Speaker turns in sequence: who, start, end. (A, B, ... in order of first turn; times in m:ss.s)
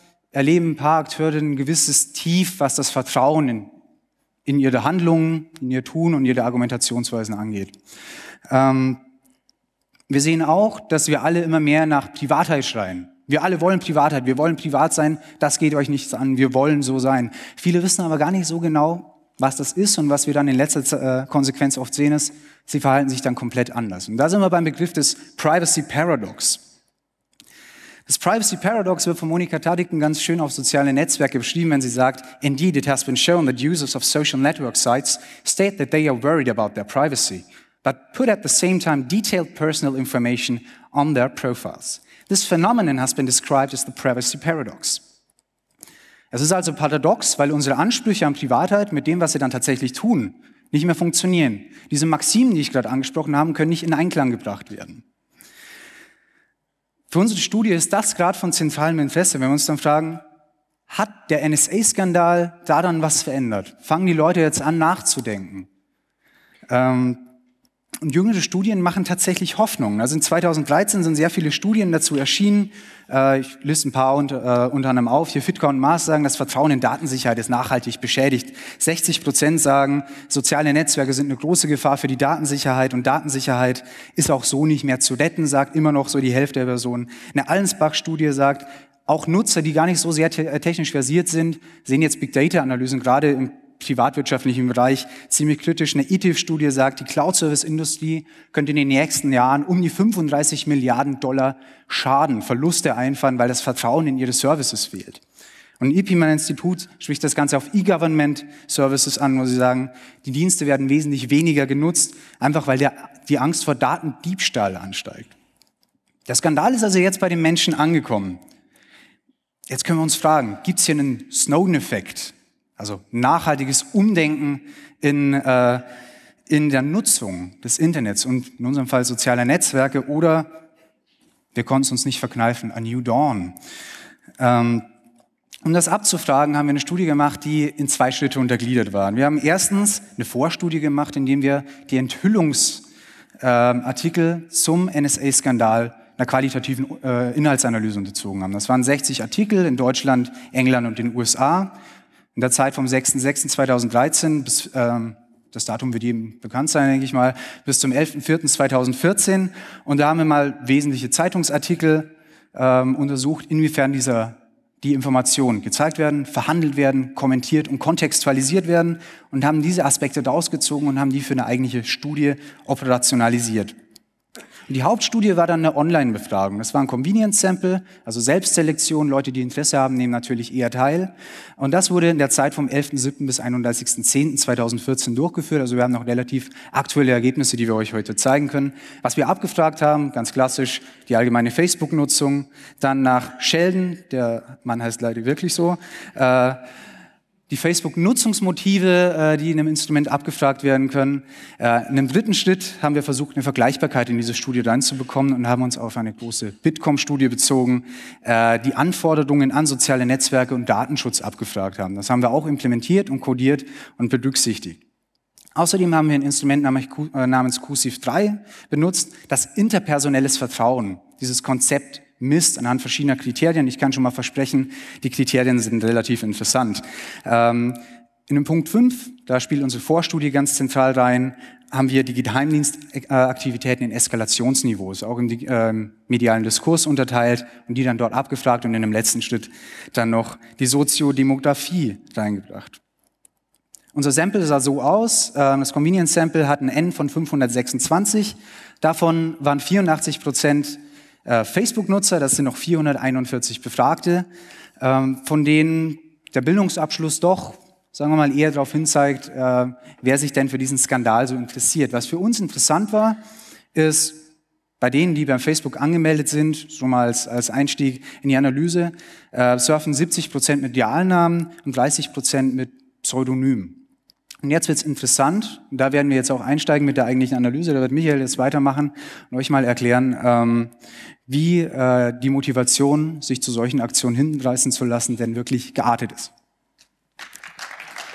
0:00.3-0:03.7 A
0:04.4-0:07.8 A
0:08.5-0:09.0 A
0:10.1-0:26.6 A
0:28.0-0:45.0 A
0:46.3-0:55.0 A
0:57.1-1:00.2 A
1:00.9-1:05.7 A
1:06.7-1:07.3 A
1:08.0-1:45.2 A
1:45.8-1:55.3 A
1:56.3-1:58.4 A
1:59.7-2:05.8 A
2:06.5-2:10.6 A
2:11.5-2:13.6 A
2:14.4-2:14.9 A
2:15.6-2:22.8 A
2:23.4-2:31.8 A
2:32.3-2:53.7 A
2:54.7-3:16.6 A
3:17.5-3:34.8 A
3:35.5-4:02.8 A
4:03.9-4:23.2 A
4:23.7-4:24.3 A
4:24.8-4:33.8 A
4:34.4-4:40.7 A
4:41.3-4:46.3 A